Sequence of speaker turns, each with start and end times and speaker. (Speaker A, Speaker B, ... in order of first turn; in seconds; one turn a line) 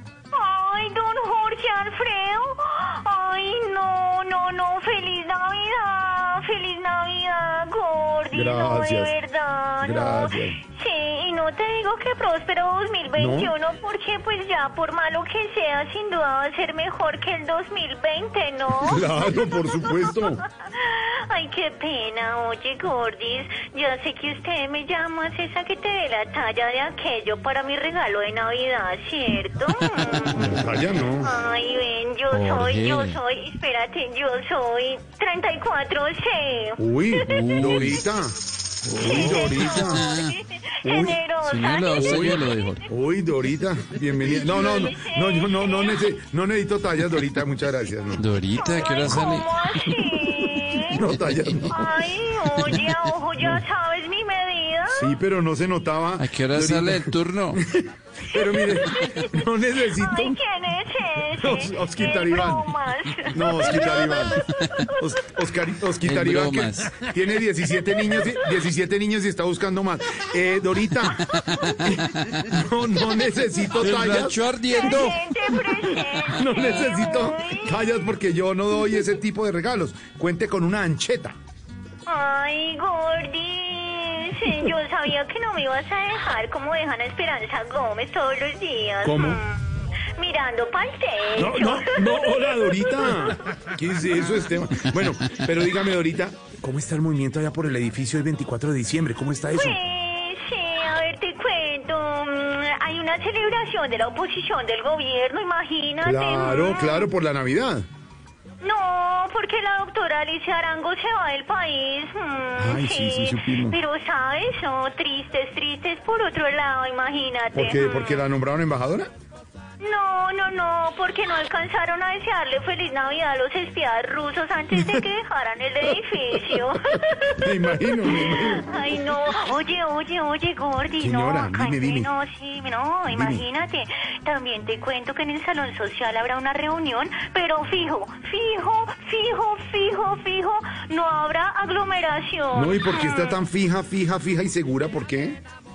Speaker A: 0.3-30.4
Speaker B: 8.3-9.2
Speaker B: 9.8-10.6
Speaker B: 13.2-13.5
Speaker B: 18.8-20.4
Speaker C: 30.0-30.7
Speaker B: 30.4-31.3
Speaker A: 31.2-37.6
Speaker C: 32.3-33.2
Speaker B: 36.8-38.4
Speaker C: 37.3-38.1
Speaker C: 38.9-40.3
Speaker B: 38.9-40.1
Speaker A: 39.0-42.8
Speaker B: 40.8-41.2
Speaker C: 41.4-42.8
Speaker B: 41.9-48.3
Speaker A: 44.2-46.1
Speaker C: 48.2-50.5
Speaker A: 48.6-51.1
Speaker B: 50.9-52.0
Speaker C: 51.1-51.6
Speaker A: 51.7-55.2
Speaker C: 52.4-53.1
Speaker B: 54.9-60.4
Speaker C: 56.2-57.6
Speaker A: 58.3-65.2
Speaker B: 61.3-62.7
Speaker B: 63.3-75.0
Speaker C: 64.3-64.8
Speaker C: 66.0-67.1
Speaker A: 67.9-68.3
Speaker C: 71.2-72.6
Speaker C: 73.7-75.2
Speaker A: 74.7-78.0
Speaker C: 75.9-76.3
Speaker B: 76.3-81.4
Speaker A: 82.1-89.6
Speaker B: 89.0-89.4
Speaker A: 90.2-93.3
Speaker B: 91.4-99.8
Speaker A: 99.5-107.1
Speaker B: 106.0-107.9
Speaker A: 108.6-118.3
Speaker B: 112.6-113.8
Speaker B: 117.5-119.1
Speaker A: 119.8-143.4
Speaker B: 126.3-128.7
Speaker B: 131.0-132.1
Speaker B: 133.1-133.4
Speaker B: 142.5-145.4